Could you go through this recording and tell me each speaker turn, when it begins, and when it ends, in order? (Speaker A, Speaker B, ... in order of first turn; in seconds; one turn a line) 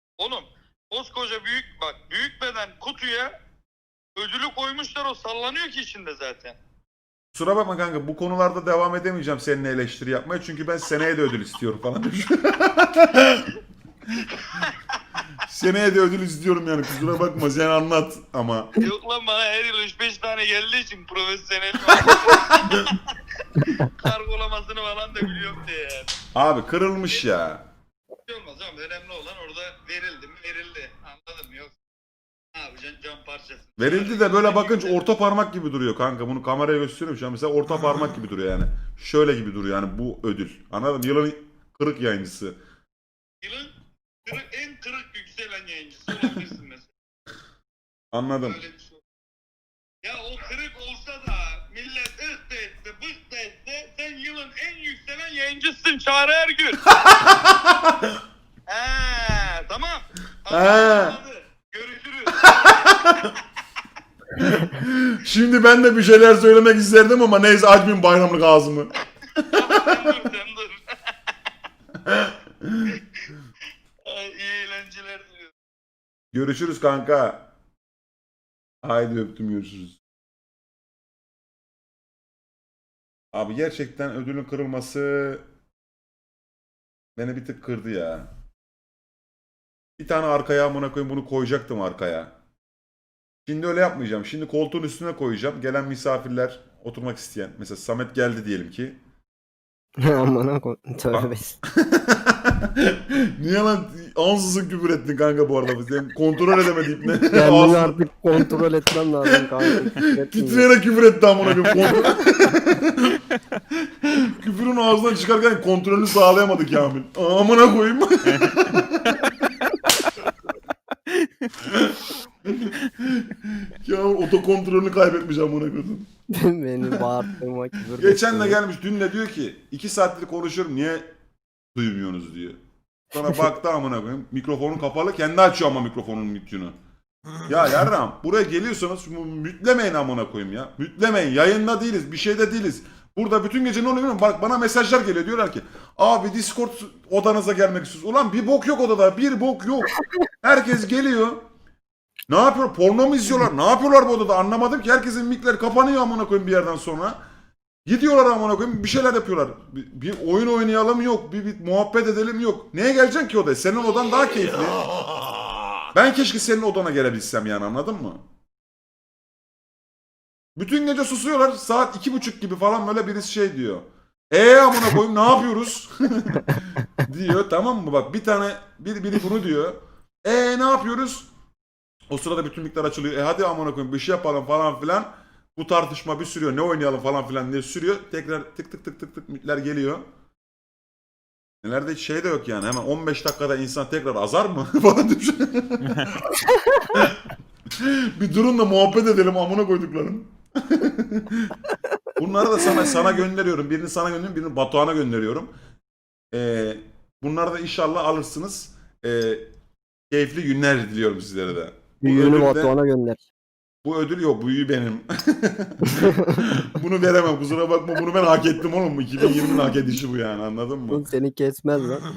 Speaker A: 0.2-3.3
Speaker A: 4.2-6.6
Speaker B: 7.3-13.5
Speaker A: 14.2-15.0
Speaker B: 15.4-18.7
Speaker A: 18.8-26.2
Speaker B: 26.3-27.6
Speaker A: 28.2-31.8
Speaker A: 32.5-35.0
Speaker B: 33.8-42.6
Speaker A: 43.4-43.7
Speaker A: 44.3-46.9
Speaker B: 48.1-48.6
Speaker A: 48.4-49.0
Speaker A: 50.0-57.0
Speaker B: 56.9-58.1
Speaker A: 58.7-63.0
Speaker B: 60.5-61.2
Speaker B: 62.5-63.3
Speaker B: 64.4-68.9
Speaker A: 69.5-71.0
Speaker B: 72.0-72.8
Speaker A: 74.0-75.5
Speaker B: 76.3-77.5
Speaker B: 78.8-80.0
Speaker B: 83.3-85.4
Speaker B: 87.2-88.3
Speaker B: 90.0-92.3
Speaker B: 93.5-99.0
Speaker C: 100.0-101.5
Speaker B: 101.1-108.6
Speaker C: 107.3-110.7
Speaker B: 109.3-113.2
Speaker B: 113.7-119.5
Speaker B: 121.6-126.1
Speaker C: 126.3-128.6
Speaker B: 128.0-131.1
Speaker B: 131.8-132.6
Speaker B: 133.1-136.8
Speaker B: 137.4-151.4
Speaker B: 152.3-157.2
Speaker B: 157.9-164.8
Speaker B: 165.9-168.2
Speaker B: 170.6-181.3
Speaker B: 182.1-190.0
Speaker B: 191.6-196.3
Speaker B: 196.9-197.2
Speaker B: 197.8-201.6
Speaker B: 202.2-205.5
Speaker B: 206.3-209.5
Speaker B: 210.1-212.7
Speaker C: 212.0-213.2
Speaker B: 213.8-221.0
Speaker C: 215.9-216.2
Speaker C: 220.9-222.1